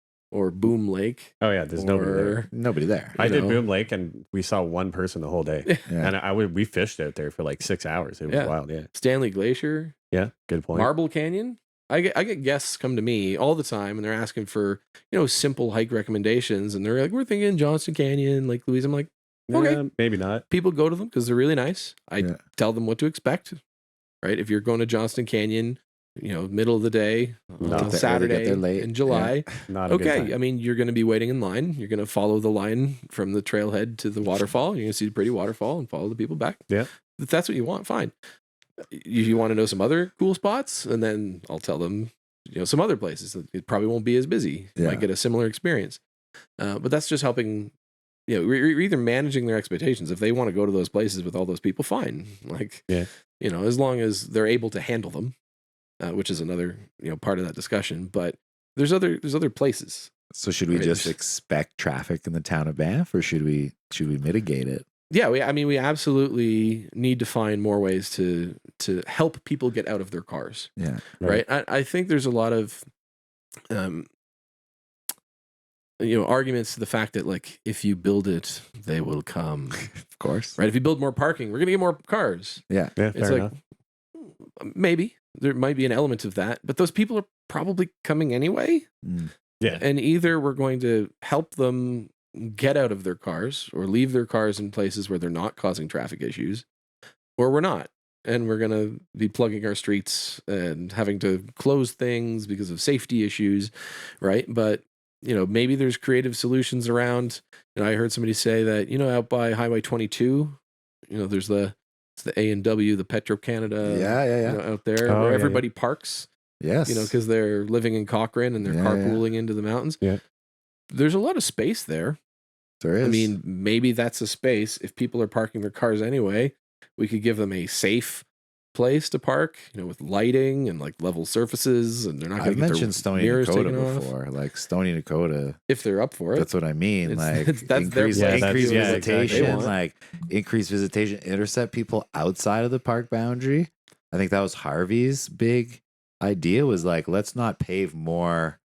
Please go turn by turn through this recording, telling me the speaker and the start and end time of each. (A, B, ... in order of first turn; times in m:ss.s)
0:00.3-0:02.5 A
0:01.4-0:02.4 B
0:02.5-0:03.2 C
0:03.1-0:03.6 A
0:03.2-0:08.9 B
0:05.9-0:06.1 C
0:08.3-0:10.0 A
0:10.1-0:10.9 B
0:10.7-0:19.8 A
0:19.5-0:20.4 B
0:20.5-0:23.6 A
0:24.2-0:36.6 A
0:27.6-0:28.0 B
0:27.7-0:29.5 C
0:29.7-0:30.3 B
0:37.2-0:38.1 A
0:38.9-0:46.0 A
0:44.8-0:45.0 C
0:46.6-0:47.7 A
0:48.3-0:52.9 A
0:53.4-0:55.3 A
0:56.0-1:00.1 A
1:00.3-1:04.8 C
1:00.7-1:01.1 A
1:05.1-1:10.7 A
1:10.8-1:11.1 C
1:11.2-1:12.8 A
1:13.7-1:14.1 A
1:16.0-1:19.9 A
1:20.1-1:20.6 C
1:20.6-1:22.6 A
1:22.7-1:23.0 C
1:23.0-1:23.5 B
1:23.1-1:23.5 A
1:24.2-1:28.9 A
1:29.0-1:29.3 C
1:29.7-1:36.6 A
1:37.4-1:50.6 A
1:51.1-1:56.3 A
1:53.8-1:54.6 C
1:55.0-1:55.6 B
1:56.6-1:57.1 C
1:56.8-2:00.0 A
1:58.6-1:59.2 C
2:00.9-2:02.2 A
2:02.8-2:03.3 C
2:03.0-2:14.1 A
2:12.4-2:15.6 C
2:15.7-2:16.5 A
2:16.3-2:28.6 C
2:17.0-2:19.7 A
2:18.1-2:19.7 B